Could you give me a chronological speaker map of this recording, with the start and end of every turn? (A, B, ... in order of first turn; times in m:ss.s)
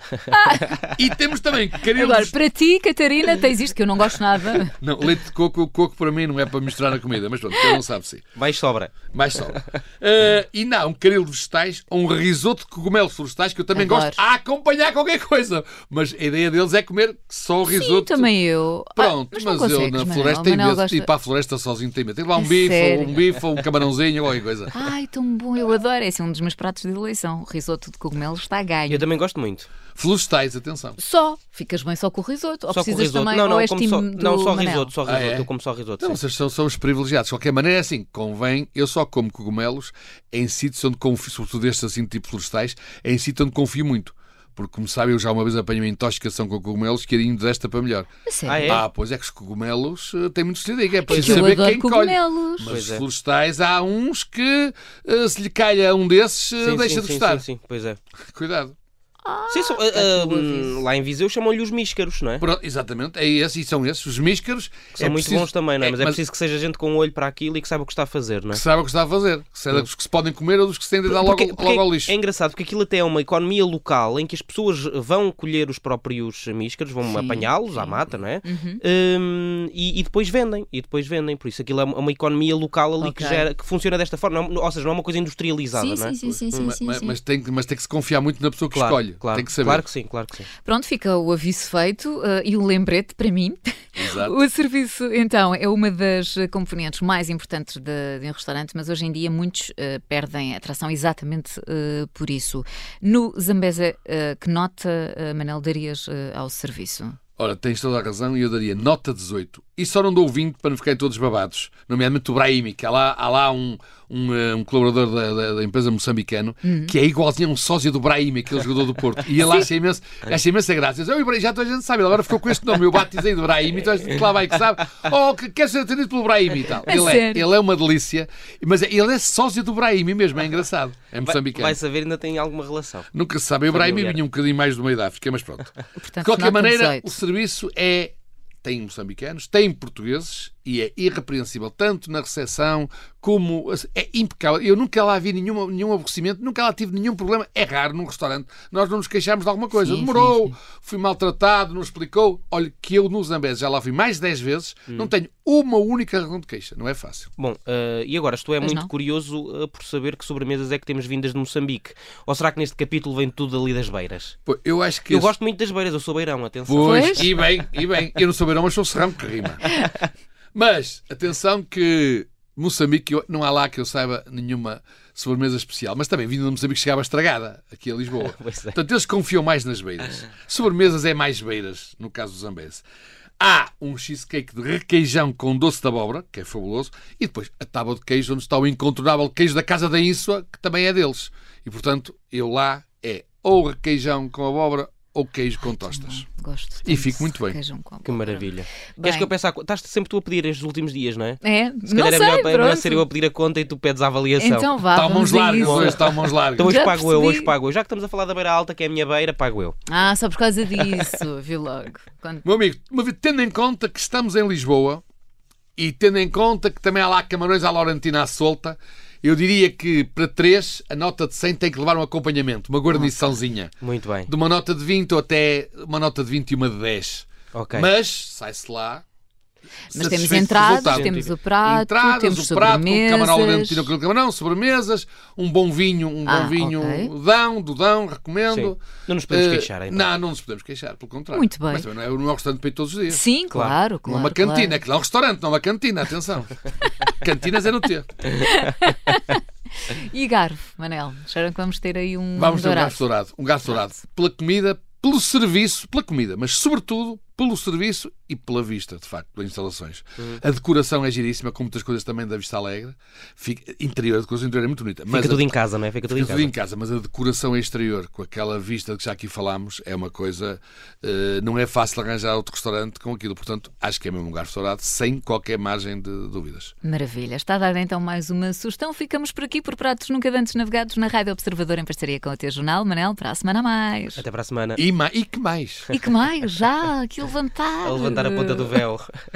0:00.3-0:00.8 A
0:00.8-0:02.4 B
0:01.9-0:04.7 A
0:04.8-0:08.3 B
0:08.4-0:09.0 C
0:09.1-0:18.3 B
0:13.8-0:14.2 A
0:17.7-0:21.1 A
0:19.0-0:24.7 B
0:22.4-0:23.2 A
0:24.7-0:29.1 A
0:28.9-0:29.7 C
0:30.0-0:31.0 B
0:31.0-0:34.9 A
0:32.7-0:36.2 C
0:35.1-0:35.5 B
0:36.0-0:48.1 B
0:48.3-0:48.8 A
0:48.5-0:48.8 C
0:48.7-0:57.4 B
0:51.1-0:52.7 A
0:51.1-0:51.6 C
0:52.7-0:53.0 C
0:56.6-0:58.0 C
0:58.3-0:58.7 B
0:59.2-1:00.8 A
0:59.5-1:02.4 C
1:02.4-1:06.2 B
1:05.0-1:08.6 C
1:08.5-1:12.1 B
1:11.1-1:26.7 C
1:17.0-1:18.8 A
1:23.0-1:23.5 A
1:25.7-1:27.2 A
1:26.2-1:29.8 B
1:28.7-1:30.5 C
1:30.6-1:47.2 A
1:34.0-1:34.4 B
1:47.4-2:11.8 B
1:56.6-1:56.9 A
1:59.4-1:59.7 A
2:06.9-2:07.5 A
2:11.2-2:13.1 C
2:13.1-2:37.3 B
2:13.7-2:14.2 C
2:16.0-2:17.2 A
2:29.7-2:30.6 A
2:37.4-2:44.4 C
2:38.6-2:38.9 A
2:44.5-2:45.3 B
2:45.1-2:47.3 C
2:46.7-2:49.6 B
2:46.8-2:47.2 A
2:50.5-3:02.8 B
2:58.2-2:58.8 C
3:03.4-3:16.2 B
3:15.7-3:19.3 A
3:16.8-3:17.6 B
3:18.0-3:24.7 C
3:21.4-3:23.1 A
3:24.4-3:27.5 A
3:24.9-3:26.7 B
3:25.6-3:29.8 C
3:29.9-3:32.4 A
3:30.7-3:31.2 C
3:32.4-3:35.0 B
3:35.8-3:43.7 B
3:42.9-3:43.4 A
3:43.8-3:44.3 C
3:44.3-3:49.0 B
3:47.5-3:47.9 C
3:49.9-3:53.9 A
3:49.9-4:03.2 B
3:50.6-3:51.3 C
3:56.2-3:57.1 A
3:58.5-4:00.1 C
4:01.3-4:01.9 A
4:03.1-4:04.8 A
4:04.0-4:08.3 B
4:08.4-4:13.1 A
4:12.4-4:25.4 B
4:25.1-4:26.5 C
4:26.1-4:36.7 B
4:36.8-4:44.2 A
4:44.2-4:44.8 C
4:44.8-4:45.9 B
4:45.9-4:48.8 A
4:47.8-4:49.1 C